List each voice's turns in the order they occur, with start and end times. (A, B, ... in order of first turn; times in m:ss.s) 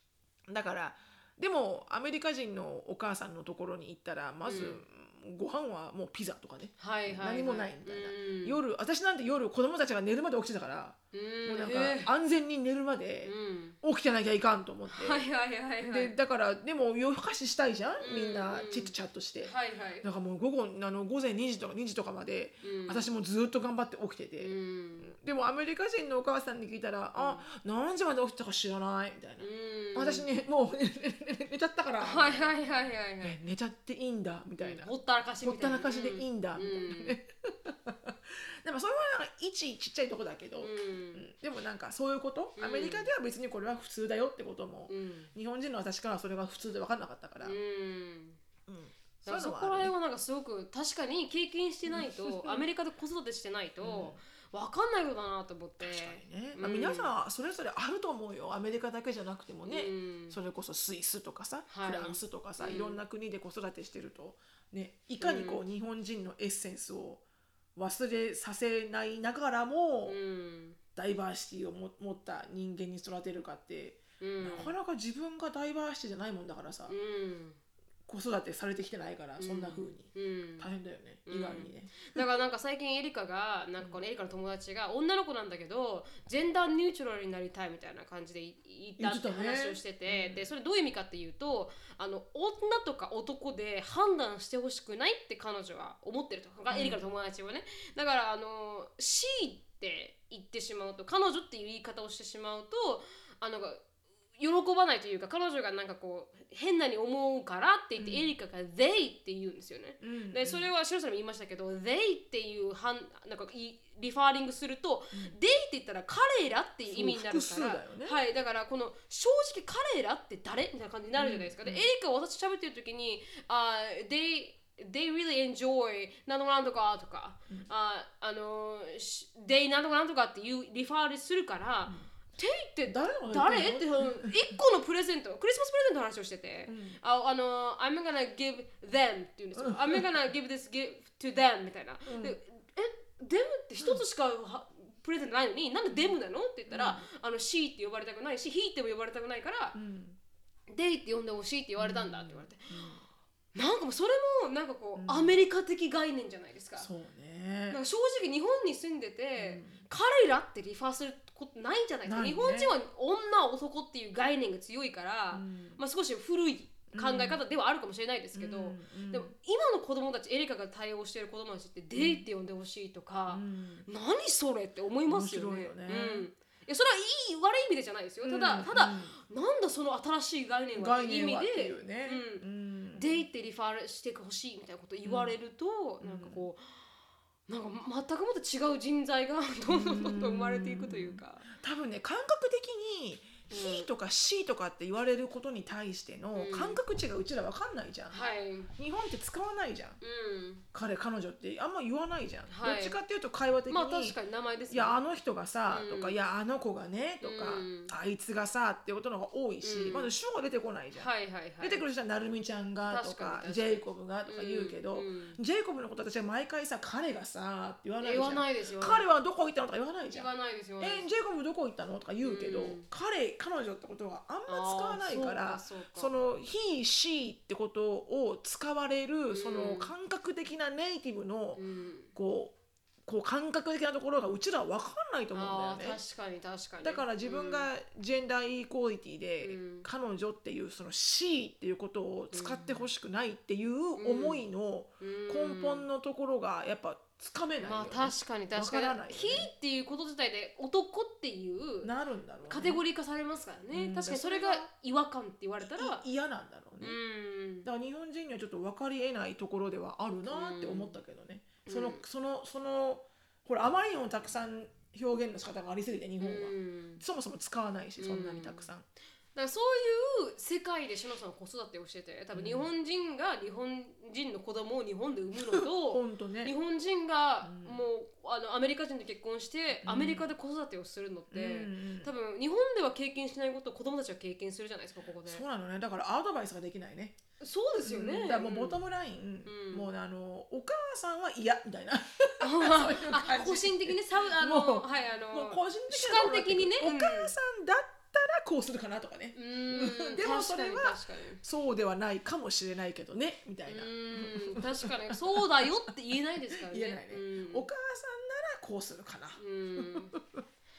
0:00.5-0:15.2 A
0:04.4-0:04.8 B
0:06.8-0:08.6 B
0:11.1-0:12.1 B
0:13.2-0:13.8 B
0:14.9-0:16.2 B
0:15.8-0:32.5 A
0:18.0-0:18.9 B
0:19.4-0:20.0 B
0:22.6-0:23.1 B
0:24.4-0:25.1 B
0:27.2-0:27.4 B
0:29.4-0:30.3 B
0:32.0-0:33.4 B
0:33.2-0:34.9 A
0:34.6-0:37.2 B
0:35.4-0:47.6 A
0:40.6-0:41.2 B
0:42.6-0:43.1 B
0:44.9-0:45.3 B
0:47.4-0:48.4 B
0:48.7-0:49.9 A
0:49.2-0:57.1 B
0:51.9-0:52.6 A
0:53.8-0:54.2 A
0:55.8-1:07.2 A
0:59.7-1:00.4 B
1:01.7-1:03.0 B
1:05.2-1:05.6 B
1:07.8-1:10.2 A
1:10.1-1:10.8 B
1:11.0-1:16.9 A
1:14.2-1:14.7 B
1:16.9-1:17.6 B
1:18.1-1:22.2 A
1:19.4-1:20.7 B
1:21.3-1:43.8 B
1:29.0-1:30.5 A
1:36.7-1:37.0 A
1:44.4-2:29.8 B
1:48.0-1:48.3 A
1:50.0-1:50.7 A
1:56.9-1:58.2 A
2:01.2-2:01.9 A
2:12.8-2:14.3 A
2:16.7-2:17.0 A
2:19.6-2:20.0 A
2:22.0-2:22.4 A
2:26.7-2:27.0 A
2:29.7-2:30.2 A
2:30.7-2:32.8 B
2:31.8-2:33.0 A
2:33.5-2:36.9 B
2:35.0-2:35.4 A
2:36.8-2:37.8 A
2:37.7-3:06.6 B
2:39.4-2:39.8 A
2:42.0-2:42.7 A
2:45.3-2:45.8 A
2:46.9-2:47.4 A
2:48.3-2:49.3 A
2:52.0-2:52.2 A
2:53.3-2:53.9 A
2:55.0-2:56.2 A
2:58.2-2:59.2 A
3:00.7-3:03.2 A
3:05.0-3:05.4 A
3:06.0-3:06.4 A
3:07.5-3:11.5 B
3:09.7-3:20.0 A
3:13.5-3:13.9 B
3:16.3-3:16.8 B
3:18.1-3:18.7 B
3:20.0-3:20.6 B
3:20.7-3:24.2 A
3:22.5-3:23.0 B
3:23.7-3:25.0 B
3:24.7-3:31.1 A
3:25.7-3:26.2 B
3:27.2-3:27.9 B
3:29.6-3:30.1 B
3:30.9-3:31.8 B
3:31.6-3:40.3 A
3:32.8-3:35.4 B
3:38.0-3:39.0 B
3:40.1-3:41.0 B
3:40.8-3:51.6 A
3:42.2-3:42.9 B
3:44.5-3:46.1 B
3:49.3-3:49.9 B
3:51.5-3:52.1 B
3:52.1-3:52.5 A
3:53.0-3:56.0 A
3:55.3-3:57.7 B
3:56.8-4:09.5 A
3:59.4-3:59.9 B
4:02.3-4:02.9 B
4:04.0-4:04.4 B
4:05.0-4:05.8 B
4:07.6-4:11.9 B
4:11.8-4:12.8 A
4:12.5-4:16.0 B
4:13.7-4:14.7 A
4:15.6-4:17.0 A
4:16.8-4:17.7 B
4:17.6-4:28.8 A
4:20.3-4:21.0 B
4:21.6-4:22.0 B
4:26.2-4:27.0 B
4:28.0-4:28.7 B
4:29.3-4:45.4 B
4:32.3-4:32.7 A
4:35.5-4:36.5 A
4:37.4-4:37.8 A
4:39.8-4:40.3 A
4:41.3-4:42.1 A
4:45.2-4:47.2 A
4:47.4-4:48.8 B
4:47.8-5:05.9 A
4:49.4-4:49.9 B
4:52.4-4:57.3 B
4:59.3-5:01.4 B
5:03.6-5:07.7 B
5:06.5-5:10.2 A
5:09.4-5:10.2 B